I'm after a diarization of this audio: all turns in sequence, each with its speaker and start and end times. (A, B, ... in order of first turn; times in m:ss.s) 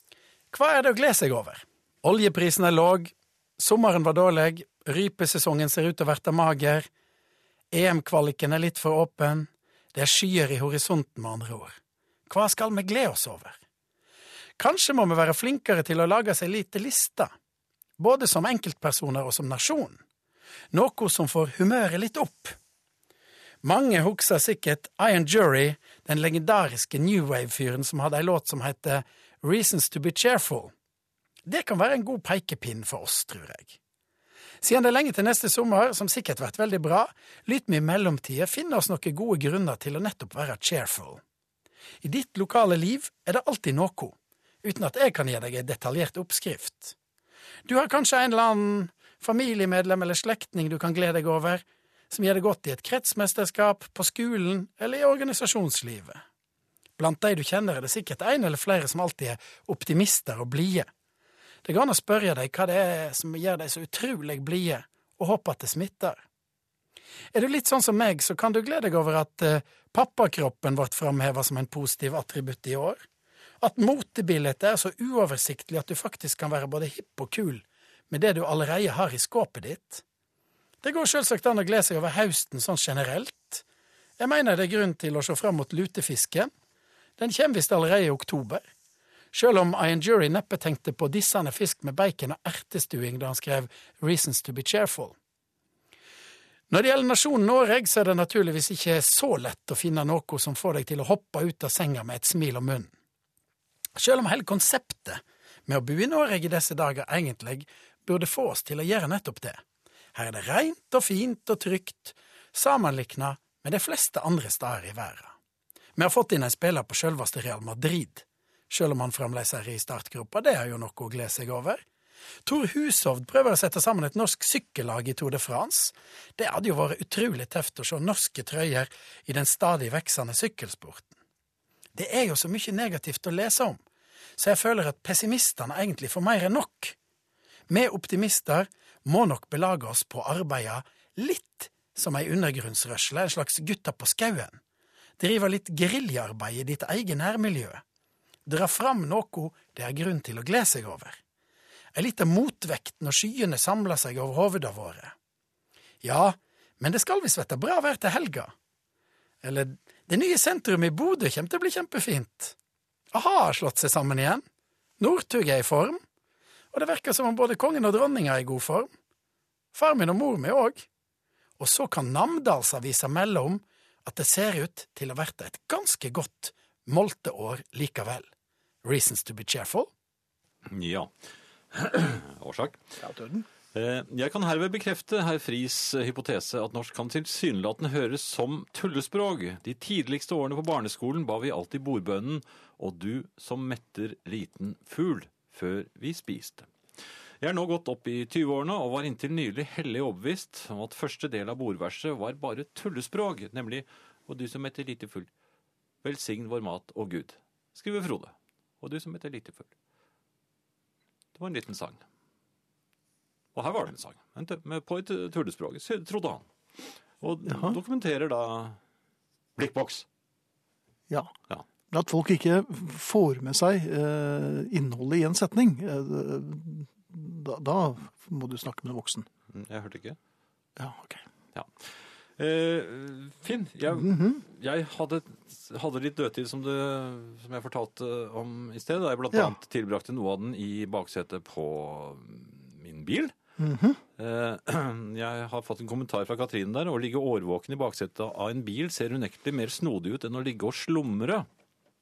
0:00.5-0:06.9 A
0:07.7-0:11.8 A
0:12.3-0:13.6 A
0:14.6-0:17.3 A
0:18.0-0:20.0 A
0:20.7-0:22.6 A
0:23.6-0:30.7 A
0:31.5-0:33.8 A
0:34.6-0:41.2 A
0:42.0-0:47.0 A
0:47.7-0:56.2 A
0:57.0-1:00.9 A
1:01.6-1:06.2 A
1:07.3-1:13.0 A
1:13.6-1:20.0 A
1:20.8-1:23.6 A
1:24.2-1:26.5 A
1:27.2-1:28.6 A
1:29.3-1:35.2 A
1:36.7-1:42.9 A
1:44.0-1:49.6 A
1:50.1-1:55.3 A
1:56.0-2:01.8 A
2:02.5-2:11.1 A
2:12.0-2:13.8 A
2:14.4-2:17.0 A
2:17.7-2:24.6 A
2:25.2-2:27.8 A
2:28.5-2:31.2 A
2:31.9-2:35.1 A
2:36.0-2:38.5 A
2:39.4-2:42.6 A
2:43.1-2:44.4 A
2:45.0-2:46.0 A
2:46.7-2:48.9 A
2:49.7-2:50.8 A
2:51.6-2:58.3 A
2:58.8-2:59.9 A
3:00.7-3:01.1 B
3:01.7-3:02.8 B
3:03.0-3:03.5 C
3:03.7-3:16.7 B
3:17.4-3:25.3 B
3:26.0-3:29.7 B
3:31.4-3:32.0 B
3:33.6-3:36.5 B
3:37.2-3:38.8 B
3:37.5-3:37.8 C
3:39.6-3:40.1 B
3:41.9-3:49.3 C
3:49.5-3:50.2 B
3:50.8-3:51.2 C
3:51.5-3:51.8 B
3:52.4-4:03.4 B
3:53.9-3:54.4 C
4:03.6-4:04.0 C
4:04.2-4:11.5 B